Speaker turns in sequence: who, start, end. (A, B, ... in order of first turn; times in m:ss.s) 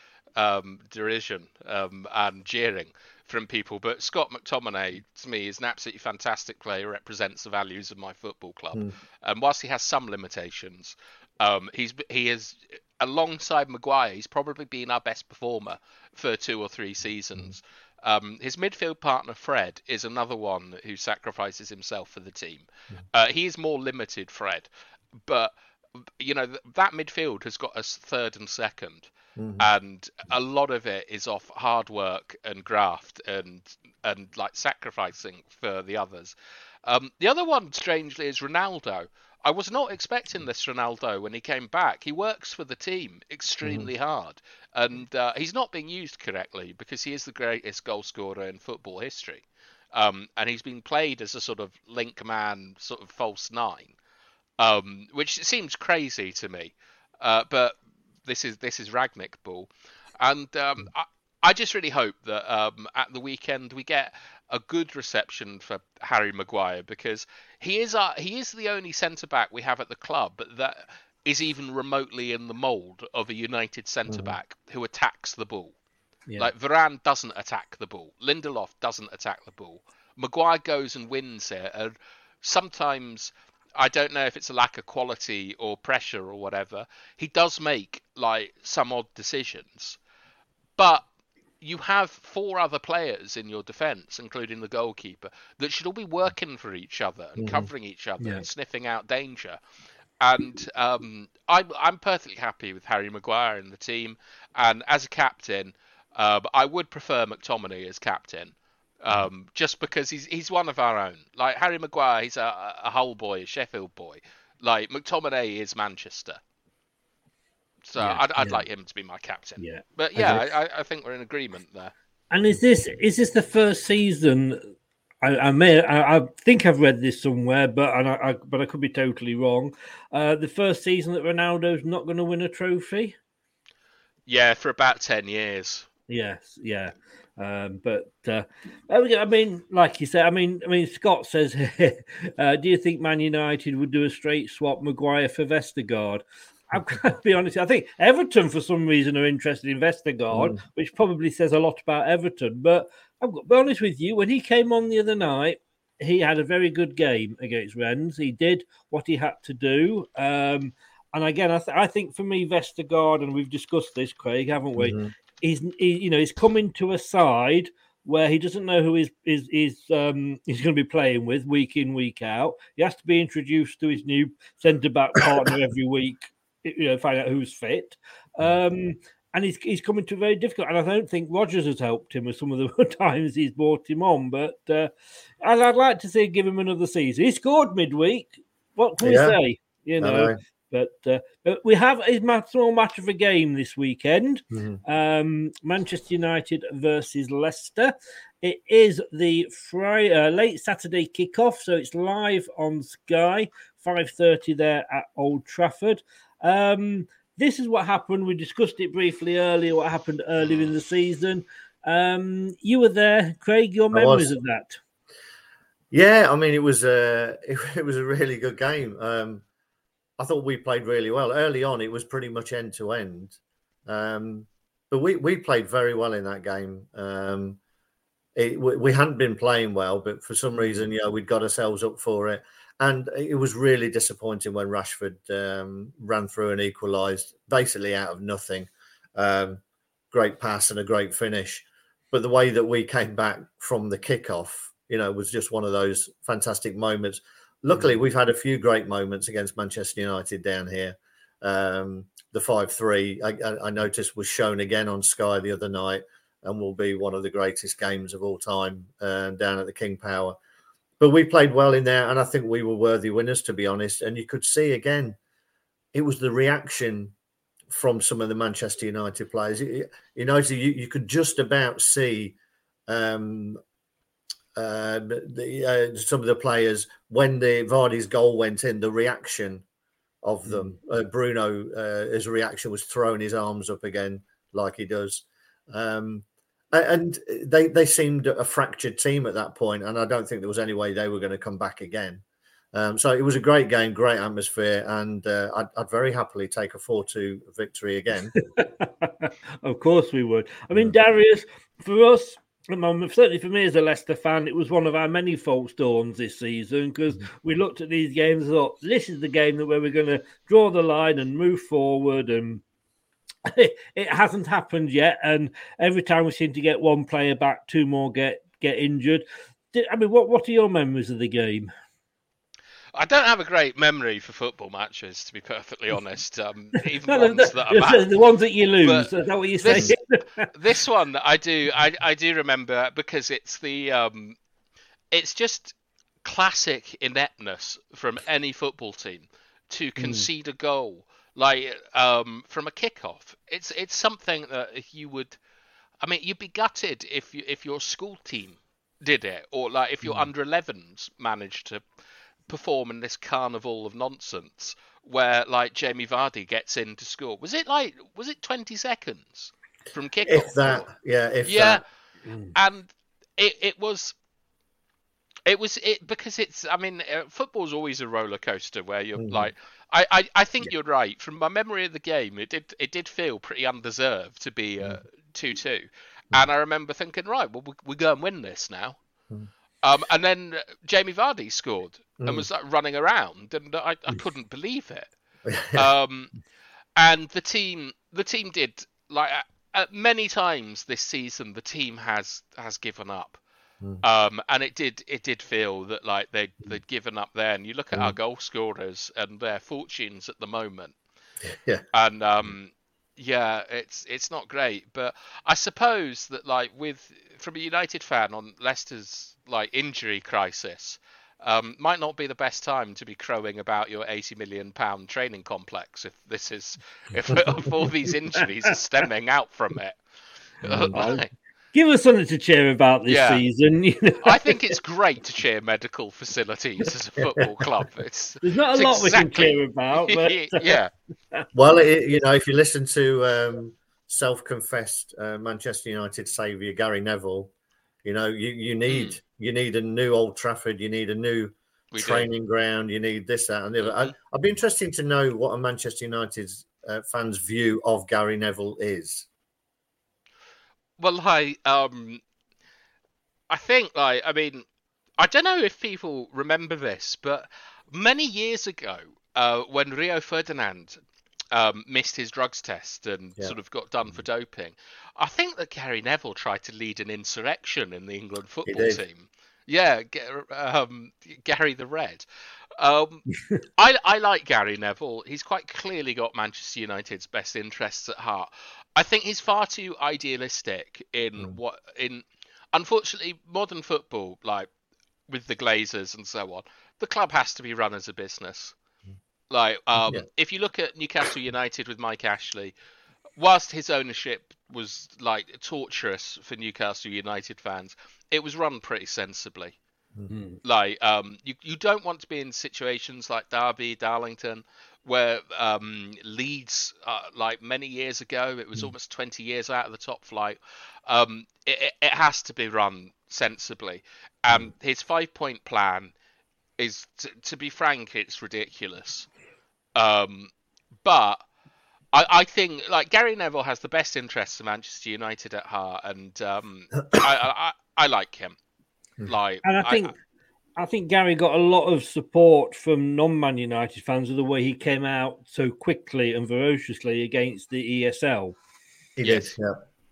0:00.4-0:24.7 A
0:25.2-0:25.5 A
0:26.2-0:53.9 A
0:29.4-0:29.7 B
0:54.6-1:15.7 A
1:16.4-1:30.0 A
1:30.8-1:31.0 A
1:31.6-1:39.6 A
1:37.4-1:37.7 B
1:40.2-1:56.4 A
1:57.9-2:01.9 A
1:58.0-1:58.6 C
1:59.6-2:00.5 C
2:02.3-2:04.7 C
2:05.2-2:13.2 C
2:14.3-2:15.9 A
2:16.1-3:04.9 C
2:30.3-2:30.6 B
2:44.8-2:45.1 B
3:05.4-3:34.8 C
3:09.0-3:09.4 B
3:10.0-3:10.4 B
3:14.5-3:14.8 B
3:33.9-3:34.3 B
3:35.9-3:39.4 B
3:40.2-3:47.6 B
3:48.3-3:59.6 B
4:00.1-4:20.4 B
4:21.0-4:25.2 B
4:25.9-4:27.1 B
4:27.7-4:32.4 B
4:32.9-4:33.6 B
4:34.5-4:39.6 B
4:40.2-4:58.3 B
4:58.3-5:12.6 C
5:13.4-5:21.7 C
5:22.9-5:28.1 A
5:27.0-5:30.4 C
5:28.8-5:29.9 A
5:29.7-5:29.9 B
5:30.5-5:34.4 A
5:35.1-5:45.4 A
5:40.0-5:40.3 C
5:46.0-5:51.8 A
5:52.5-6:00.8 A
6:00.2-6:01.8 B
6:01.4-6:01.8 A
6:02.2-6:02.5 C
6:02.5-6:04.1 A
6:05.4-6:19.0 A
6:09.2-6:09.5 B
6:19.8-6:25.1 A
6:22.2-6:22.5 B
6:25.4-6:25.9 B
6:25.7-6:26.3 A
6:27.0-6:33.4 A
6:34.0-6:40.9 A
6:41.4-6:41.8 B
6:41.9-7:00.0 A
7:00.6-7:01.3 A
7:00.6-7:01.0 B
7:00.9-7:04.6 C
7:03.1-7:03.4 A
7:04.2-7:10.9 A
7:08.4-7:10.8 C
7:11.5-7:17.5 B
7:18.0-7:29.3 B
7:18.9-7:19.2 A
7:21.9-7:22.3 A
7:23.8-7:24.1 A
7:31.0-7:32.2 A
7:33.5-7:34.6 A
7:35.2-7:41.0 A
7:41.5-7:52.2 A
7:48.6-7:49.0 B
7:52.8-7:53.2 A
7:53.8-8:04.7 A
8:05.3-8:08.7 A
8:09.5-8:12.7 A
8:10.0-8:10.2 B
8:13.4-8:19.8 A
8:20.3-8:20.6 C
8:20.6-8:36.1 A
8:36.8-8:39.3 A
8:39.9-8:40.5 A
8:41.0-8:41.4 A
8:42.1-8:48.6 A
8:49.2-8:50.1 A
8:49.6-8:50.1 C
8:50.8-8:58.6 C
8:59.2-8:59.8 B
8:59.2-8:59.5 A